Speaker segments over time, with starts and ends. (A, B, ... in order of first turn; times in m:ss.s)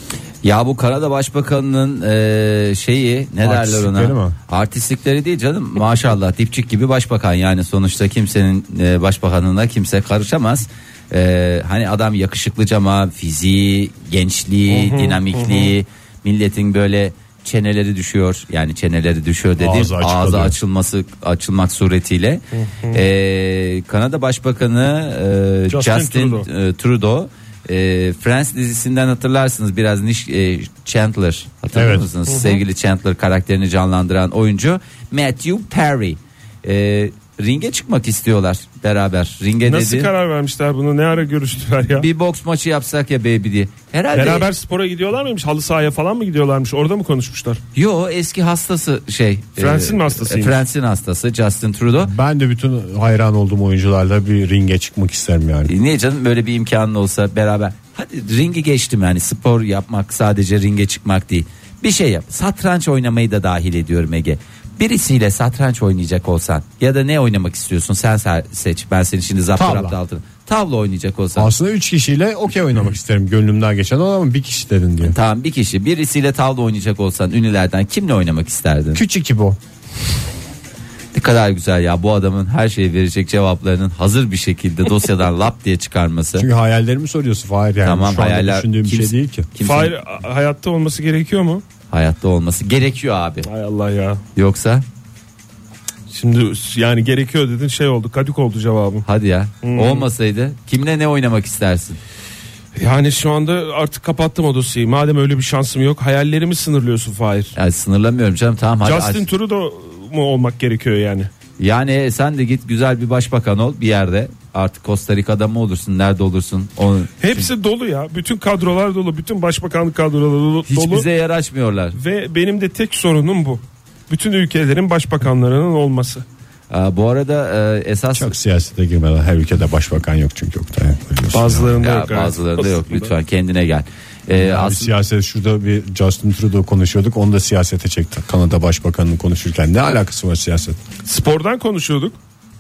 0:00.4-0:40.1 A
0:03.4-0:04.4 B
0:14.7-0:15.7 C
0:19.6-0:20.6 B
0:22.6-0:23.0 C
0:25.7-0:26.5 C
0:31.8-0:32.1 B
0:32.3-0:32.6 C
0:39.6-0:42.1 C
0:41.9-0:44.5 A
0:44.1-0:47.6 C
0:47.8-0:52.1 A
0:49.6-0:50.6 C
0:52.0-0:55.7 B
0:55.7-1:11.5 A
1:09.6-1:10.0 B
1:11.4-1:15.2 B
1:15.0-1:19.0 A
1:19.0-1:19.6 B
1:21.1-1:26.5 A
1:26.4-1:29.5 B
1:27.8-1:30.0 A
1:29.6-1:31.6 C
1:31.9-1:33.5 A
1:33.4-1:34.2 C
1:34.4-1:34.8 A
1:36.1-1:39.1 C
1:39.0-1:42.0 A
1:39.6-1:40.1 C
1:42.8-1:47.6 C
1:47.6-1:49.2 A
1:48.8-1:51.3 C
1:51.6-1:57.5 A
1:57.2-2:01.1 C
2:00.7-2:02.0 A
2:02.0-2:06.2 C
2:06.7-2:08.3 A
2:08.2-2:11.8 B
2:11.3-2:13.1 C
2:11.8-2:14.9 A
2:14.4-2:20.8 B
2:21.1-2:22.2 C